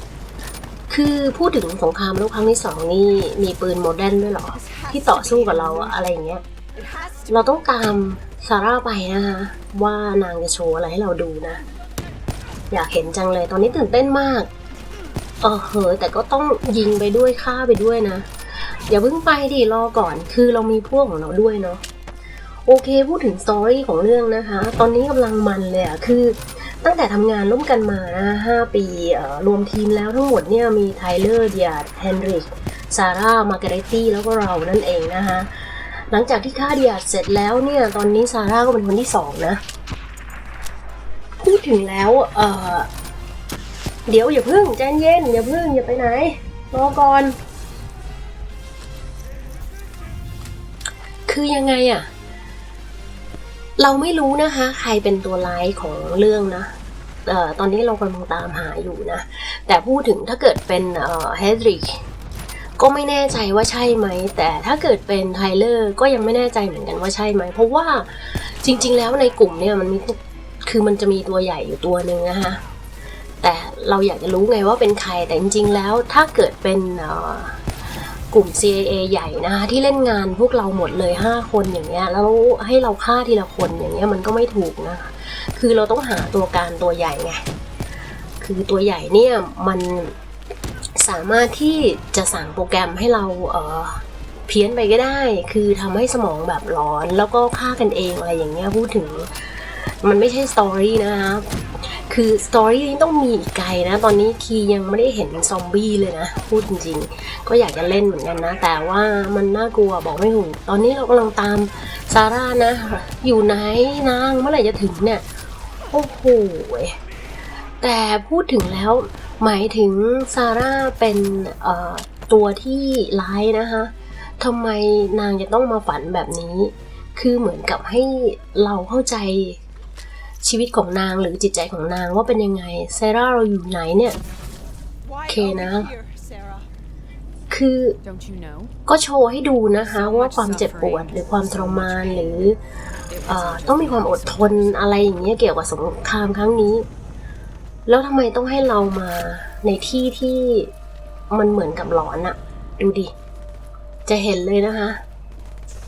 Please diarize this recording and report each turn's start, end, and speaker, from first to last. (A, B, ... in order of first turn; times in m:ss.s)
0:00.9-0:06.4 A
0:04.4-0:06.1 B
0:06.7-0:07.8 B
0:07.3-0:11.6 A
0:12.7-0:14.5 A
0:15.4-0:21.8 A
0:22.6-0:39.6 A
0:41.4-0:42.9 A
0:44.1-0:47.4 A
0:51.3-0:52.1 A
0:53.8-0:56.7 A
0:57.2-1:02.0 A
1:02.8-1:12.6 A
1:13.4-1:17.6 A
1:18.3-1:27.4 A
1:28.4-1:30.1 A
1:31.0-1:39.3 A
1:40.0-1:55.2 A
1:55.9-1:57.0 A
1:57.8-2:09.6 A
2:10.4-2:14.2 A
2:15.0-2:16.7 B
2:15.3-2:15.9 A
2:17.5-2:18.0 A
2:18.0-2:18.7 C
2:18.9-2:22.6 A
2:19.8-2:22.4 C
2:23.1-2:25.1 C
2:23.3-2:26.8 A
2:27.8-2:30.7 A
2:31.3-2:33.1 A
2:34.0-2:35.0 A